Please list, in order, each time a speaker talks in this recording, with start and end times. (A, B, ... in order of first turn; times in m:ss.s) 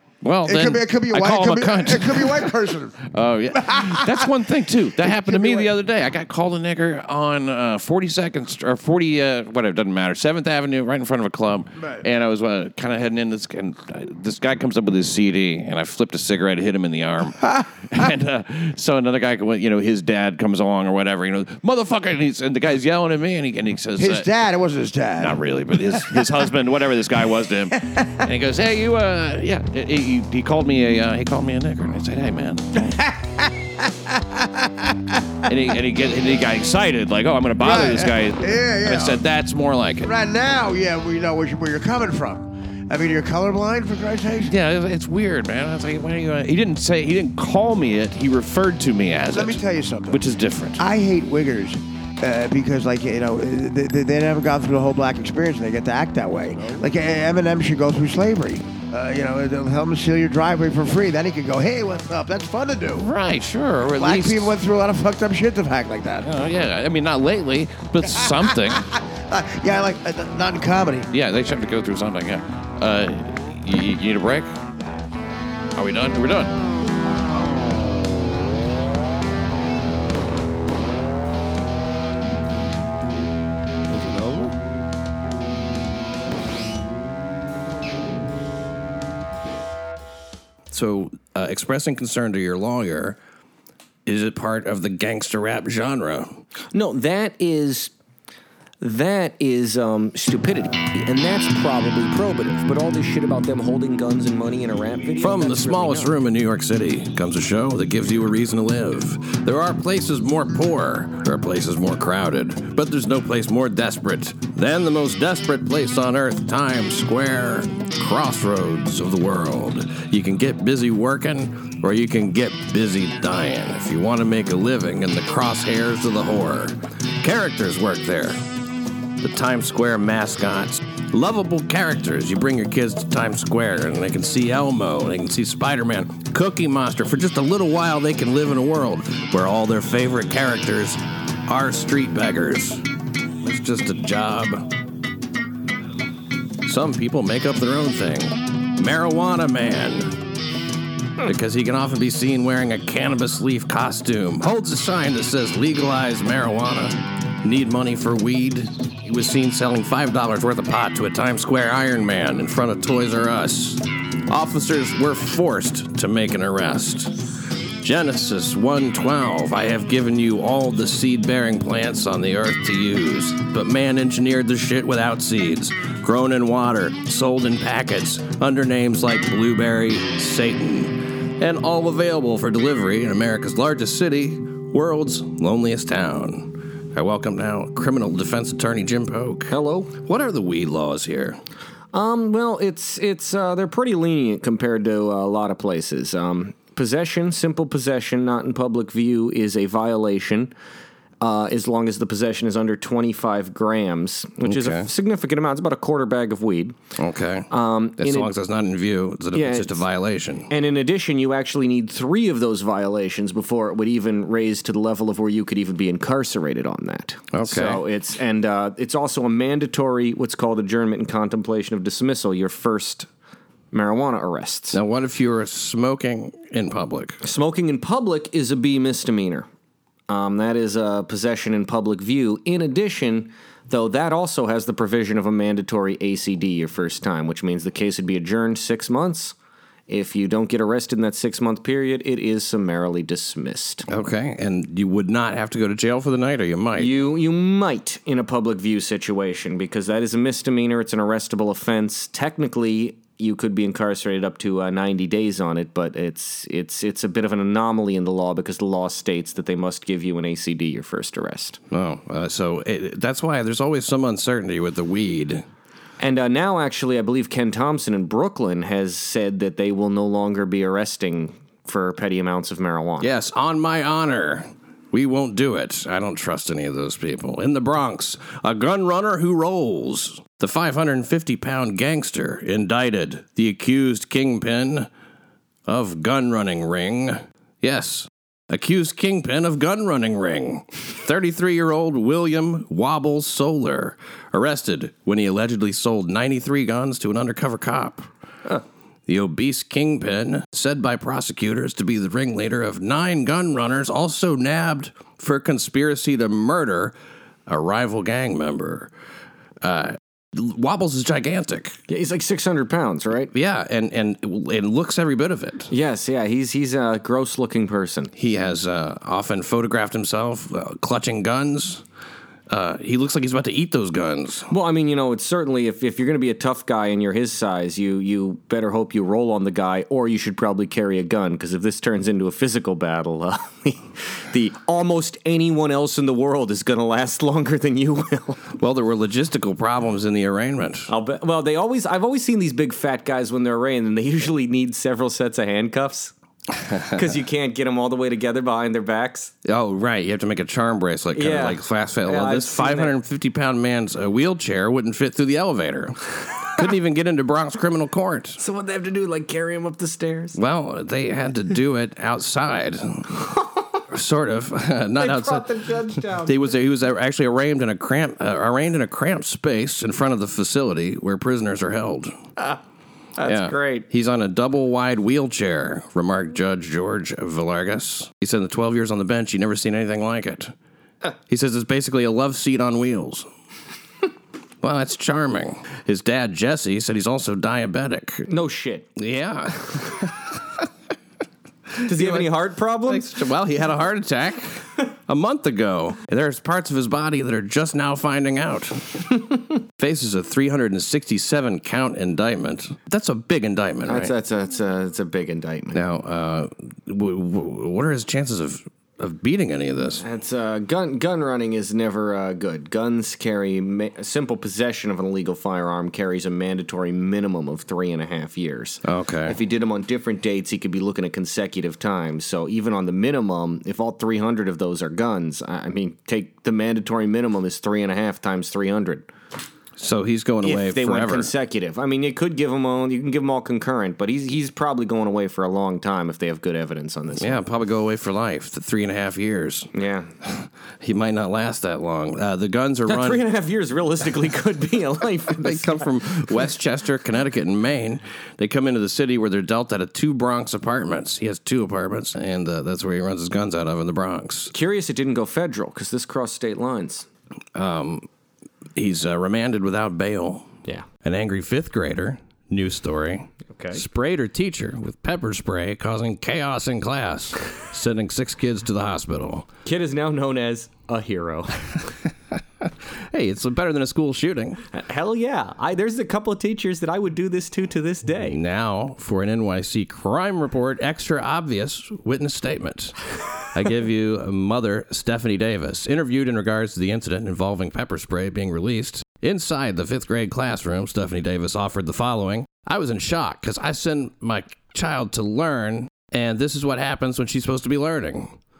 0:00.2-0:24.3 A
0:00.4-0:03.0 B
0:03.5-0:04.3 B
0:05.0-0:05.7 B
0:11.8-0:12.0 B
0:24.0-0:26.4 B
0:25.2-0:32.8 A
0:27.7-0:28.3 B
0:32.8-0:35.5 B
0:35.5-0:40.1 A
0:37.6-0:39.2 B
0:40.0-0:44.5 B
0:44.4-0:50.8 A
0:49.3-0:50.2 B
0:50.8-1:03.1 B
1:03.0-1:04.6 A
1:04.0-1:06.3 B
1:06.2-1:08.8 A
1:08.0-1:11.1 B
1:11.1-1:14.5 A
1:15.7-1:16.5 A
1:23.9-1:24.5 A
1:30.7-1:33.2 A
1:34.0-1:36.4 A
1:36.7-1:37.9 C
1:38.8-1:46.1 C
1:45.2-2:08.4 A
2:09.2-2:22.8 A
2:23.4-2:24.7 A
2:26.6-2:30.2 A
2:31.2-2:47.2 A
2:47.8-3:11.4 A
3:09.5-3:09.9 C
3:11.9-3:20.5 C
3:21.2-3:26.8 C
3:24.4-3:24.9 A
3:27.0-3:30.5 A
3:27.5-3:28.3 C
3:29.3-3:29.8 C
3:30.5-3:43.1 C
3:37.3-3:37.8 A
3:43.7-3:44.8 C
3:44.7-3:47.2 A
3:47.2-3:49.5 C
3:50.1-3:59.3 C
3:59.9-4:03.8 C
4:03.9-4:07.0 A
4:06.8-4:21.6 C
4:21.7-4:25.4 A
4:26.0-4:33.1 C
4:33.0-4:44.9 A
4:45.7-4:58.1 A
4:59.1-5:06.9 A
5:07.5-5:08.9 A
5:09.6-5:11.8 A
5:11.9-5:13.3 C
5:13.3-5:15.7 A
5:15.7-5:18.1 C
5:18.2-5:21.8 A
5:22.5-5:24.5 A
5:24.5-5:38.4 C
5:38.5-5:40.9 A
5:40.9-5:46.1 C
5:46.9-5:49.3 C
5:49.4-5:56.0 A
5:51.1-5:52.9 C
5:56.6-5:58.4 A
5:58.4-6:00.4 C
6:00.4-6:03.3 A
6:03.9-6:12.1 A
6:05.0-6:06.5 C
6:13.2-6:13.9 C
6:13.2-6:20.5 A
6:21.3-6:23.3 A
6:24.6-6:28.3 A
6:28.3-6:28.9 C
6:29.0-6:30.1 A
6:31.8-6:32.3 A
6:31.8-6:33.2 C
6:32.9-6:38.8 A
6:39.8-6:44.1 A
6:43.9-6:45.8 C
6:45.7-6:50.0 A
6:50.0-7:09.1 C
6:58.8-6:59.4 A
7:09.8-7:11.3 A
7:10.4-7:17.4 C
7:17.1-7:19.7 A
7:19.7-7:20.1 C
7:20.2-7:23.2 A
7:22.9-7:25.9 C
7:25.3-7:34.5 A
7:34.5-7:37.1 C
7:37.5-7:38.1 A
7:38.7-7:49.5 A
7:43.5-7:43.8 C
7:49.6-7:51.7 C
7:53.1-7:54.6 A
7:54.7-7:58.4 C
7:58.2-8:03.0 A
8:03.5-8:18.4 A